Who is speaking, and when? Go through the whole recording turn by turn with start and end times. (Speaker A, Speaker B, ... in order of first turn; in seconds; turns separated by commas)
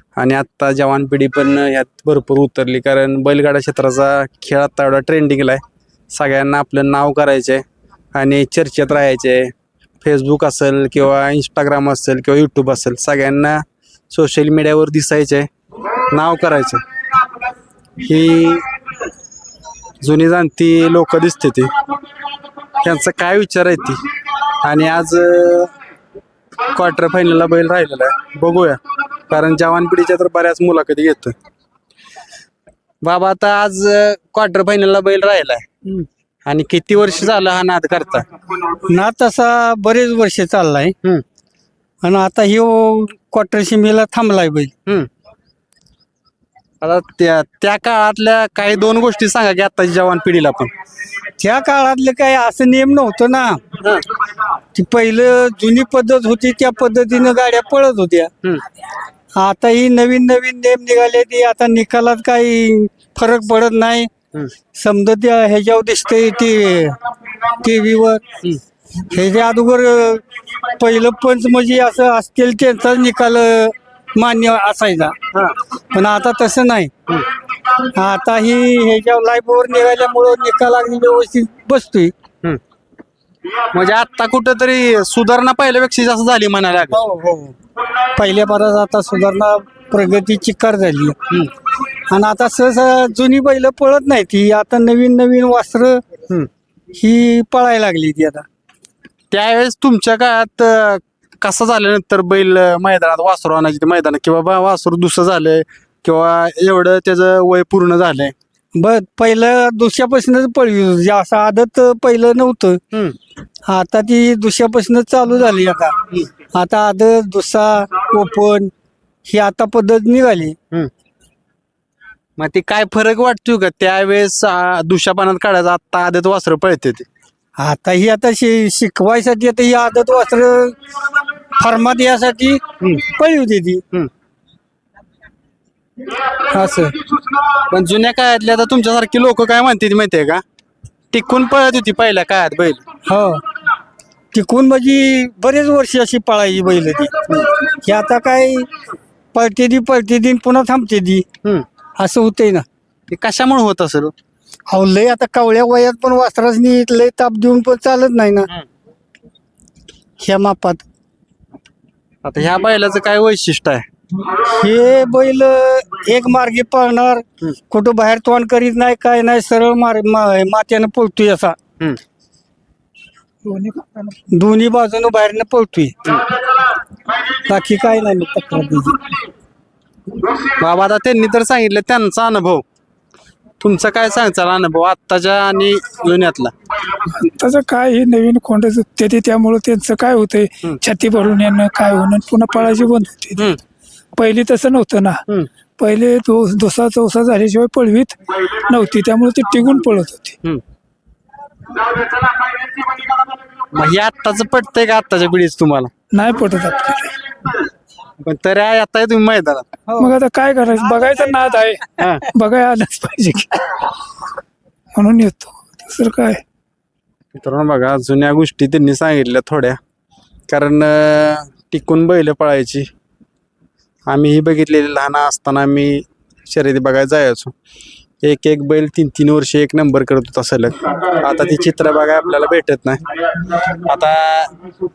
Speaker A: 0.2-5.6, Speaker A: 6.1-7.6, Speaker A: 8.2-15.5, Speaker A: 16.1-16.8, Speaker A: 18.0-18.7, Speaker A: 20.0-21.7, Speaker A: 22.8-24.0, Speaker A: 24.6-25.7, Speaker A: 26.7-31.4, Speaker A: 33.0-35.8, Speaker A: 36.5-38.3, Speaker B: 38.8-41.0, Speaker B: 42.0-44.7, Speaker A: 46.8-50.7, Speaker B: 51.4-53.7, Speaker B: 54.7-58.3, Speaker B: 59.4-64.1, Speaker B: 64.7-68.2, Speaker B: 69.1-75.2, Speaker A: 75.3-75.6, Speaker B: 75.9-76.9, Speaker B: 77.7-82.1, Speaker A: 83.7-87.0, Speaker B: 86.9-87.5, Speaker B: 88.1-91.2, Speaker B: 92.0-96.0, Speaker B: 96.9-98.5, Speaker A: 99.3-108.3, Speaker B: 108.8-112.8, Speaker A: 112.9-113.2, Speaker B: 113.7-118.7, Speaker B: 119.2-120.6, Speaker A: 122.4-127.1, Speaker B: 127.6-133.8, Speaker B: 136.5-137.0, Speaker A: 137.7-140.4, Speaker A: 141.1-142.8, Speaker B: 143.1-143.4, Speaker B: 144.3-148.7, Speaker A: 147.3-147.6, Speaker B: 149.3-151.2, Speaker B: 152.0-152.7, Speaker A: 153.1-154.1, Speaker B: 154.7-158.5, Speaker B: 160.2-160.8, Speaker A: 162.2-163.8, Speaker B: 164.2-171.6, Speaker C: 173.4-174.2, Speaker B: 174.3-175.9, Speaker B: 177.4-179.0, Speaker A: 180.6-182.6, Speaker A: 183.6-186.5, Speaker C: 187.2-193.5, Speaker C: 194.2-195.2, Speaker C: 195.8-200.4, Speaker A: 203.7-205.9, Speaker C: 206.1-207.2, Speaker A: 208.2-209.9, Speaker C: 210.0-213.8, Speaker A: 212.0-212.2, Speaker C: 214.9-216.4, Speaker A: 217.3-219.8, Speaker A: 220.5-222.9, Speaker A: 224.1-227.5, Speaker A: 228.2-233.0, Speaker A: 233.7-234.5